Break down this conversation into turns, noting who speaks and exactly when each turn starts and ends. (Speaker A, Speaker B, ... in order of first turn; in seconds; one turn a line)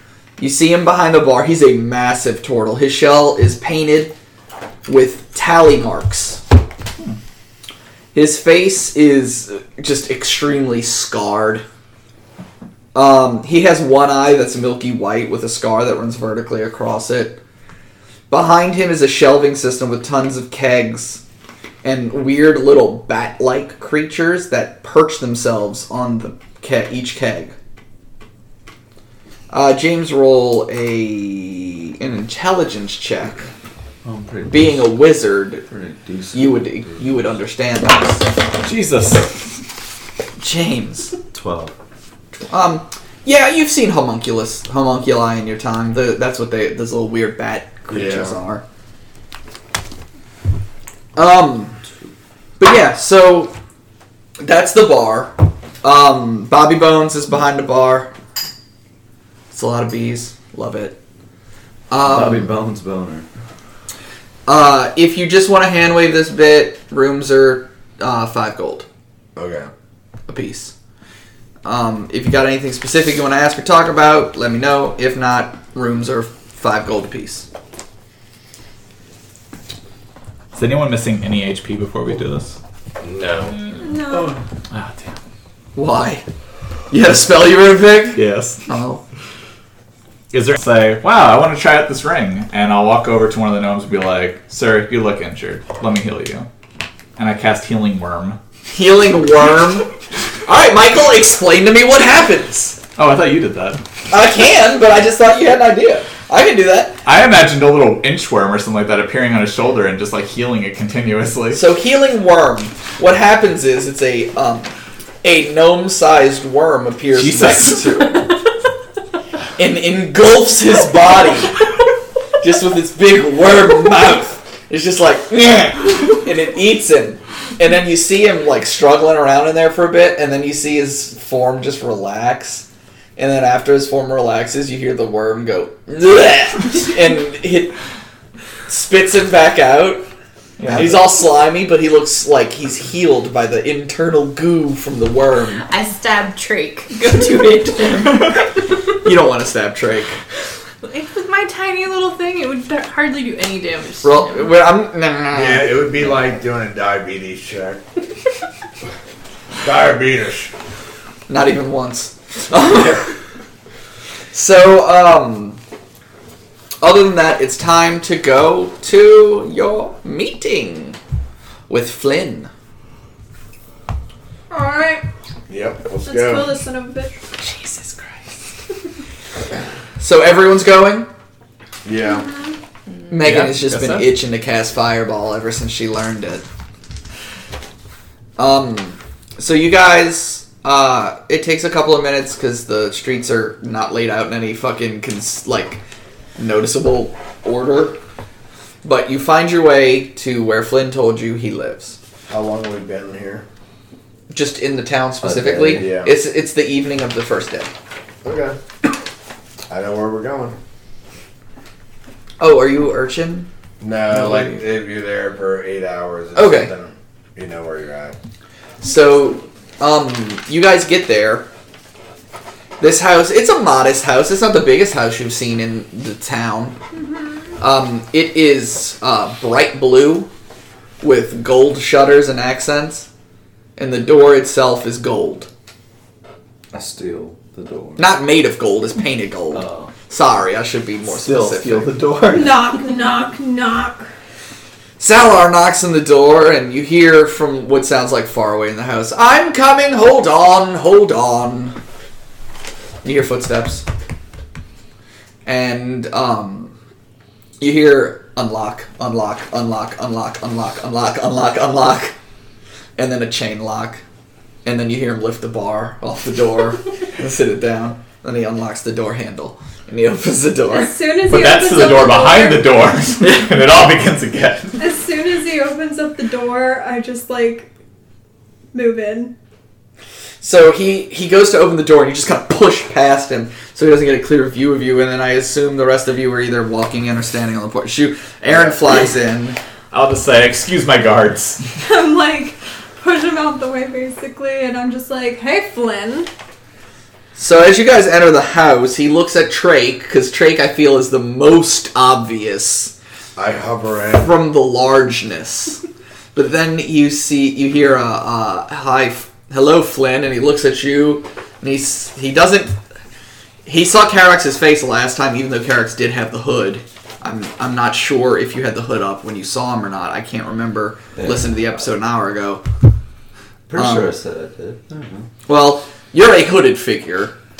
Speaker A: 0.4-4.1
Speaker A: 4.8-6.4
Speaker A: 8.1-11.6
Speaker A: 12.9-17.4
Speaker A: 18.3-21.2
Speaker A: 21.8-27.5
Speaker A: 29.5-33.5
Speaker B: 34.0-34.9
Speaker A: 34.5-35.6
Speaker B: 35.7-37.0
Speaker A: 36.3-38.3
Speaker C: 38.6-39.4
Speaker A: 40.4-41.1
Speaker B: 41.3-41.7
Speaker A: 42.5-48.6
Speaker D: 47.9-48.4
Speaker A: 51.1-51.8
Speaker A: 52.6-53.5
Speaker A: 54.4-58.1
Speaker A: 59.5-61.0
Speaker A: 61.9-62.5
Speaker B: 62.0-63.3
Speaker A: 64.5-68.9
Speaker D: 69.3-69.7
Speaker A: 70.3-70.7
Speaker A: 71.6-77.5
Speaker C: 80.5-82.6
Speaker D: 83.0-83.6
Speaker E: 83.5-83.8
Speaker F: 83.8-84.4
Speaker C: 84.7-85.2
Speaker A: 85.7-86.2
Speaker A: 86.9-89.0
Speaker C: 88.1-88.6
Speaker C: 90.3-96.5
Speaker C: 97.2-98.4
Speaker A: 98.7-99.9
Speaker A: 100.4-102.8
Speaker C: 103.0-103.8
Speaker A: 104.1-107.0
Speaker C: 107.0-111.6
Speaker A: 111.5-118.3
Speaker C: 117.1-118.2
Speaker A: 119.6-121.6
Speaker A: 122.4-132.7
Speaker A: 133.2-137.7
Speaker A: 138.7-140.1
Speaker C: 140.6-141.0
Speaker A: 140.7-145.6
Speaker E: 145.6-148.4
Speaker A: 148.9-150.2
Speaker E: 150.8-154.5
Speaker A: 154.0-156.1
Speaker D: 155.3-157.8
Speaker D: 159.6-160.5
Speaker A: 161.3-163.1
Speaker A: 164.3-165.6
Speaker A: 166.8-171.0
Speaker A: 171.7-172.5
Speaker F: 174.5-175.0
Speaker D: 175.5-176.6
Speaker F: 176.0-177.2
Speaker A: 180.0-181.1
Speaker D: 181.8-182.3
Speaker F: 182.0-182.6
Speaker A: 183.1-186.4
Speaker C: 183.2-184.0
Speaker A: 188.4-195.8
Speaker A: 196.4-198.0
Speaker A: 198.8-202.0
Speaker D: 202.2-203.4
Speaker A: 204.3-207.7
Speaker B: 205.2-205.9
Speaker D: 205.7-206.1
Speaker D: 208.2-208.6
Speaker D: 209.7-210.6
Speaker A: 212.4-213.5
Speaker D: 213.8-218.2
Speaker A: 214.1-214.6
Speaker A: 216.3-216.7
Speaker A: 218.8-221.5
Speaker A: 222.8-226.8
Speaker A: 227.6-230.3
Speaker A: 231.0-233.1
Speaker A: 233.8-235.5
Speaker B: 236.7-238.1
Speaker A: 238.0-241.9
Speaker B: 239.5-239.9
Speaker C: 241.2-242.6
Speaker F: 242.3-244.1
Speaker A: 245.0-251.8
Speaker A: 253.0-253.8
Speaker A: 255.4-256.7
Speaker A: 257.6-262.1
Speaker A: 263.0-264.0
Speaker A: 264.6-271.0
Speaker F: 270.7-272.8
Speaker C: 271.2-274.8
Speaker A: 273.2-273.5
Speaker F: 274.8-277.7
Speaker F: 278.7-279.3
Speaker A: 280.4-289.6
Speaker C: 289.9-291.6
Speaker F: 291.8-296.3
Speaker A: 297.4-302.9
Speaker D: 303.4-304.4
Speaker A: 304.1-305.8
Speaker A: 306.3-312.8
Speaker A: 313.6-322.6
Speaker B: 321.1-321.6
Speaker B: 323.7-325.3
Speaker A: 323.8-324.1
Speaker A: 325.5-327.3